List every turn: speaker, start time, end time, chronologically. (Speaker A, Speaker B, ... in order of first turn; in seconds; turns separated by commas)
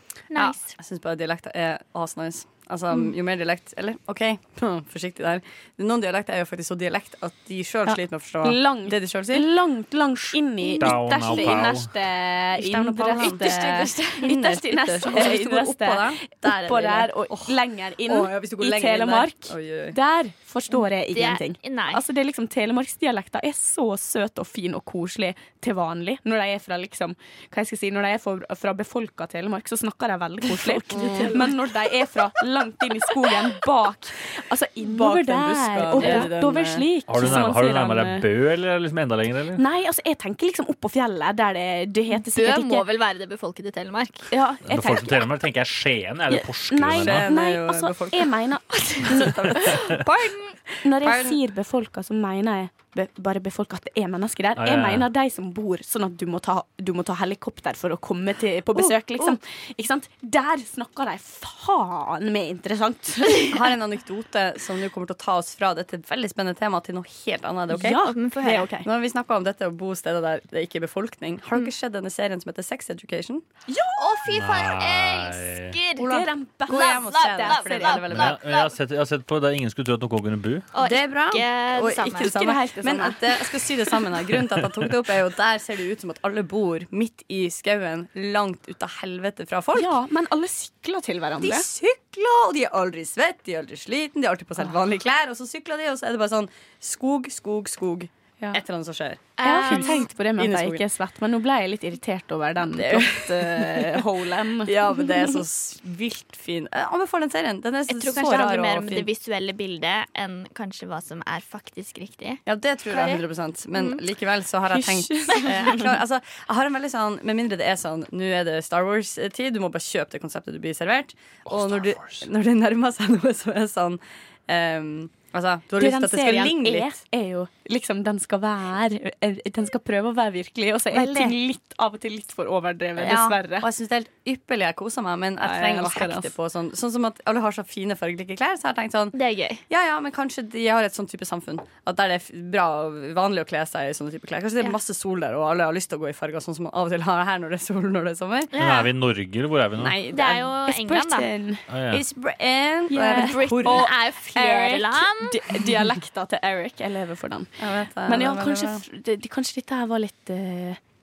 Speaker A: 0.3-0.7, Speaker B: 0.3-9.5, Speaker C: 8.4-13.6, Speaker A: 10.6-11.6, Speaker D: 10.8-11.9, Speaker B: 12.6-20.0, Speaker A: 13.2-14.3, Speaker C: 14.2-38.3, Speaker A: 21.1-22.0, Speaker B: 30.9-31.4, Speaker A: 30.9-31.3, Speaker B: 34.8-37.4, Speaker A: 36.0-36.3, Speaker D: 37.1-39.6, Speaker C: 39.6-42.9, Speaker A: 42.3-44.3, Speaker C: 44.3-45.3, Speaker D: 44.7-47.3, Speaker C: 46.3-49.8, Speaker B: 47.0-48.3, Speaker B: 49.0-50.0, Speaker A: 49.5-50.6, Speaker C: 50.8-63.6, Speaker B: 51.0-51.4, Speaker D: 54.6-55.1, Speaker B: 58.7-59.4, Speaker B: 63.4-68.0, Speaker C: 67.7-68.9, Speaker A: 67.8-68.8, Speaker B: 68.8-73.4, Speaker C: 73.7-74.2, Speaker A: 74.0-78.7, Speaker D: 74.3-75.8, Speaker B: 76.0-78.4, Speaker C: 76.0-78.1, Speaker D: 78.1-80.7, Speaker A: 80.7-82.3, Speaker B: 80.8-89.9, Speaker C: 82.1-83.5, Speaker C: 89.7-91.7, Speaker B: 91.4-100.8, Speaker A: 99.4-100.1, Speaker C: 99.4-104.8, Speaker B: 102.7-109.1, Speaker A: 107.9-113.2, Speaker B: 112.5-127.0, Speaker A: 113.7-114.0, Speaker C: 114.7-115.9, Speaker D: 121.5-122.2, Speaker C: 125.8-133.7, Speaker B: 130.9-131.4, Speaker B: 133.0-139.2, Speaker C: 135.4-136.3, Speaker A: 139.1-139.6, Speaker B: 139.7-148.5, Speaker A: 148.5-148.9, Speaker D: 148.6-150.0, Speaker B: 149.8-150.5, Speaker A: 150.1-151.3, Speaker C: 150.6-151.7, Speaker D: 151.7-152.0, Speaker B: 151.9-153.9, Speaker C: 152.9-160.8, Speaker A: 153.1-155.4, Speaker B: 157.6-158.8